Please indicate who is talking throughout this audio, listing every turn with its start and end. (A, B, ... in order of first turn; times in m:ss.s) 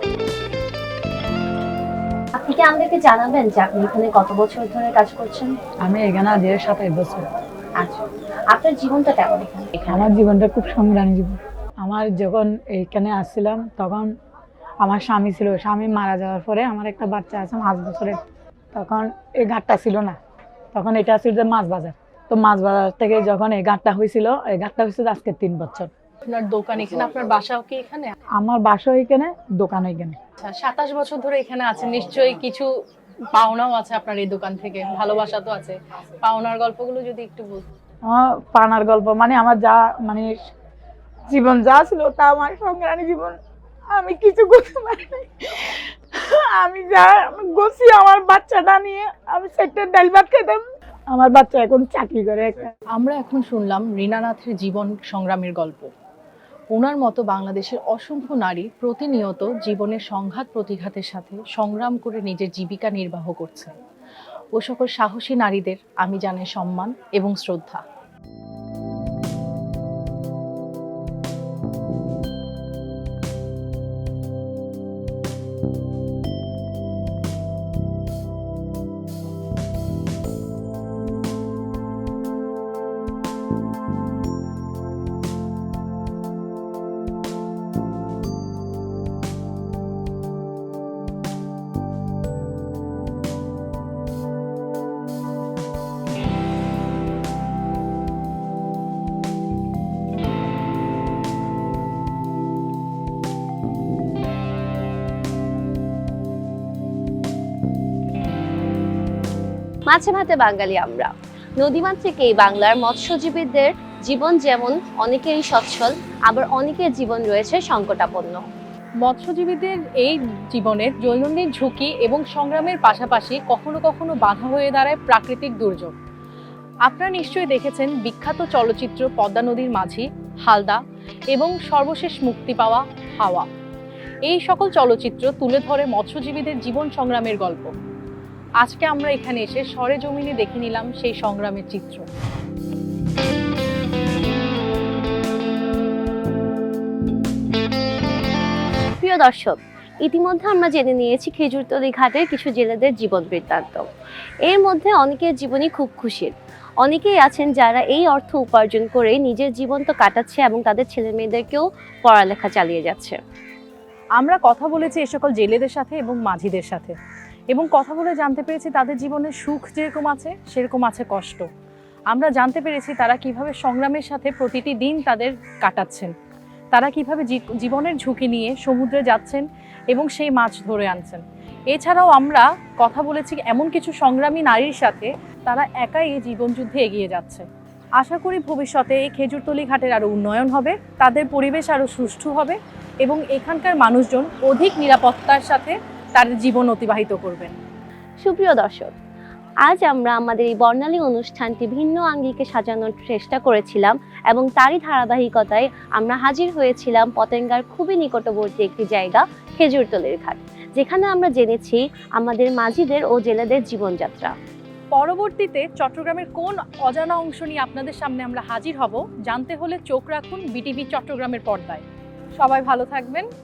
0:02.4-0:05.6 A
0:05.8-0:07.3 B
0:08.5-0:10.1 A
0:09.9-0:14.1 B
0:14.8-0:18.2 B
0:18.8-0:20.2 B
0:20.8-0:25.9 B
0:26.3-0:28.2 C
0:28.4-0:30.2 B
0:30.4-0:32.7 C
0:33.3-0:37.7 C
0:38.1-0:40.3 B
0:41.3-0:43.4 B
0:44.0-0:45.3 B
0:46.6-0:52.6 B
0:52.9-0:55.9 C
0:56.7-1:03.7 C
1:04.6-1:07.8 C
1:49.9-1:58.5 A
1:59.0-2:06.0 C
2:06.9-2:10.8 C
2:11.3-2:13.5 C
2:14.3-2:17.7 C
2:18.6-2:22.0 C
2:29.0-2:33.9 A
2:34.5-2:43.2 A
2:44.2-2:46.9 C
2:47.5-2:51.5 C
2:52.1-2:56.1 C
2:56.7-3:07.5 C
3:08.0-3:17.6 C
3:18.2-3:18.9 A
3:19.6-3:34.3 A
3:34.9-3:41.8 C
3:42.4-3:43.3 C